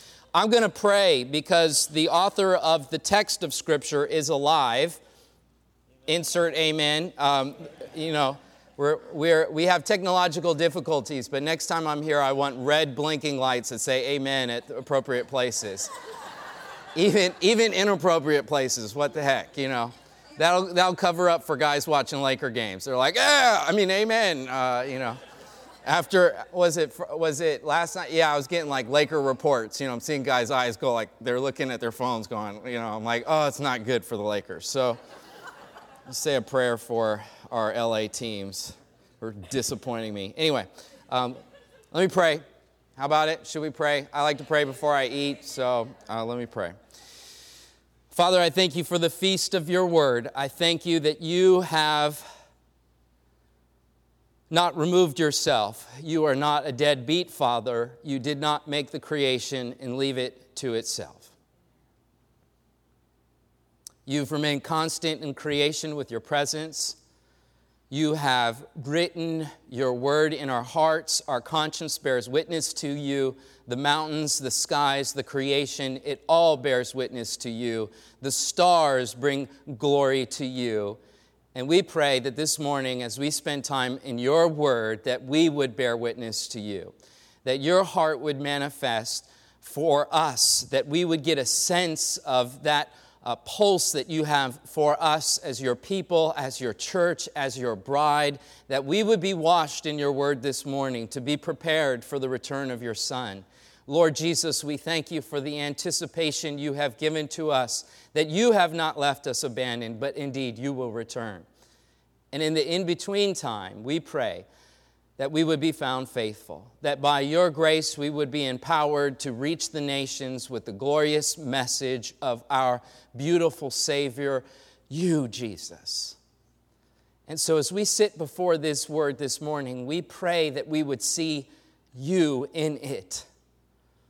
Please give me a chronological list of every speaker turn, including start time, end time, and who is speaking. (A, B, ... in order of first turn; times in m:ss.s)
0:00.3-0:05.0 A
0:06.1-0:15.9 A
0:17.0-0:25.2 A
0:25.8-0:35.0 A
0:36.1-0:41.4 A
0:41.9-0:42.4 A
0:43.0-0:46.7 A
0:48.1-0:52.3 A
0:54.5-1:01.3 A
1:04.1-1:07.0 A
1:07.9-1:21.0 A
1:21.5-1:26.9 A
1:27.4-1:51.5 A
1:52.3-1:54.5 A
1:55.2-2:06.2 A
2:07.3-2:13.3 A